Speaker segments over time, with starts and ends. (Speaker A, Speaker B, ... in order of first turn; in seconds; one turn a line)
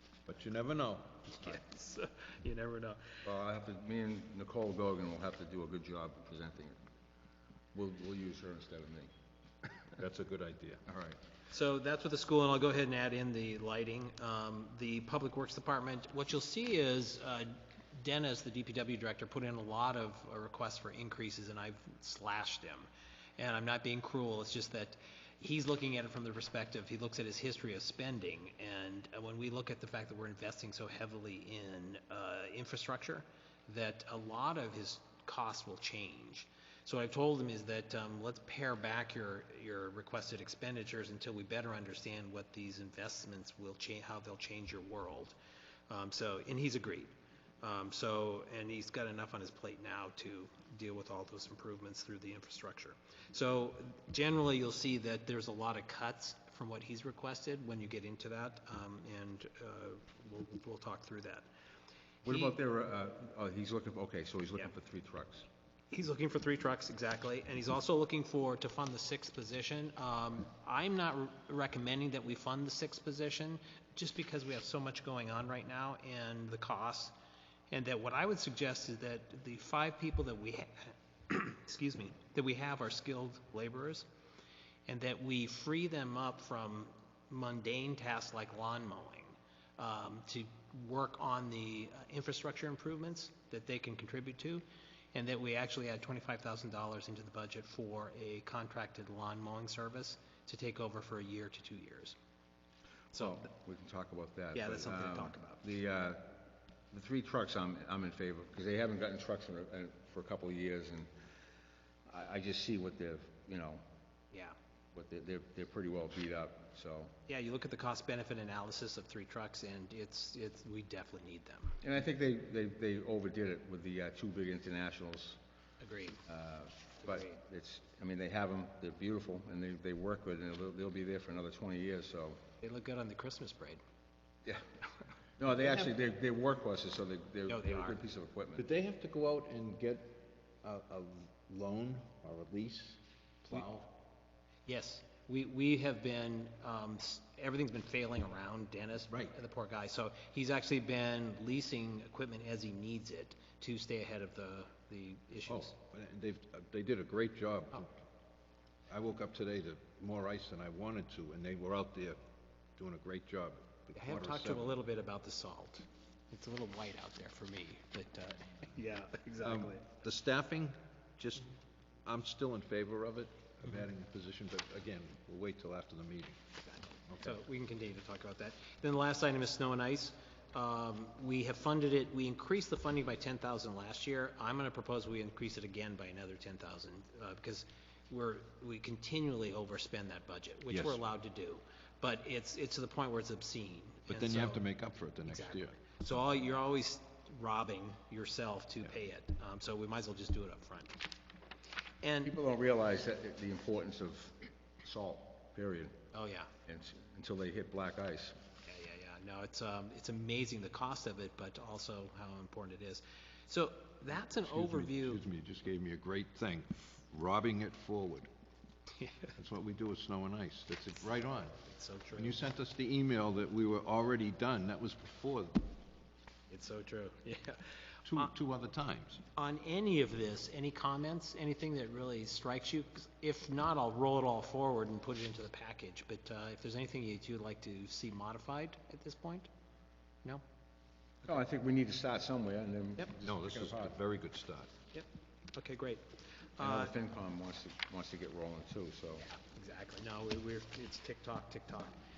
Speaker A: 0.2-1.3
Speaker B: 1.3-3.2
Speaker C: 3.2-6.8
Speaker C: 7.7-9.1
Speaker A: 9.9-10.8
Speaker C: 10.9-11.2
Speaker B: 11.5-45.4
Speaker B: 45.9-47.1
Speaker B: 47.6-61.5
Speaker C: 62.2-65.5
Speaker B: 62.2-62.5
Speaker B: 65.9-77.1
Speaker B: 77.7-84.0
Speaker B: 84.9-102.2
Speaker C: 103.1-106.4
Speaker B: 104.5-105.6
Speaker C: 106.9-111.1
Speaker C: 112.1-113.8
Speaker C: 114.9-117.1
Speaker B: 117.3-121.8
Speaker C: 121.8-125.4
Speaker B: 125.8-126.2
Speaker C: 126.3-132.4
Speaker B: 127.0-127.3
Speaker B: 132.6-133.8
Speaker C: 135.4-138.6
Speaker B: 137.5-138.0
Speaker A: 138.6-143.9
Speaker B: 144.7-155.8
Speaker A: 155.5-157.9
Speaker A: 158.9-162.2
Speaker A: 162.8-164.8
Speaker B: 163.9-169.8
Speaker A: 169.4-171.5
Speaker A: 172.1-176.4
Speaker B: 176.6-194.6
Speaker A: 177.1-177.4
Speaker A: 190.7-191.0
Speaker A: 194.1-195.8
Speaker B: 195.2-201.0
Speaker B: 202.0-202.3
Speaker C: 202.2-205.9
Speaker B: 206.1-206.5
Speaker C: 206.7-208.4
Speaker B: 208.6-215.2
Speaker A: 214.4-218.3
Speaker B: 219.0-219.3
Speaker A: 219.3-221.6
Speaker B: 221.7-222.4
Speaker A: 222.2-225.7
Speaker B: 226.5-228.3
Speaker A: 228.0-229.2
Speaker B: 229.3-239.5
Speaker C: 241.2-244.0
Speaker A: 243.2-244.7
Speaker B: 244.9-246.9
Speaker C: 246.6-249.2
Speaker B: 249.2-251.9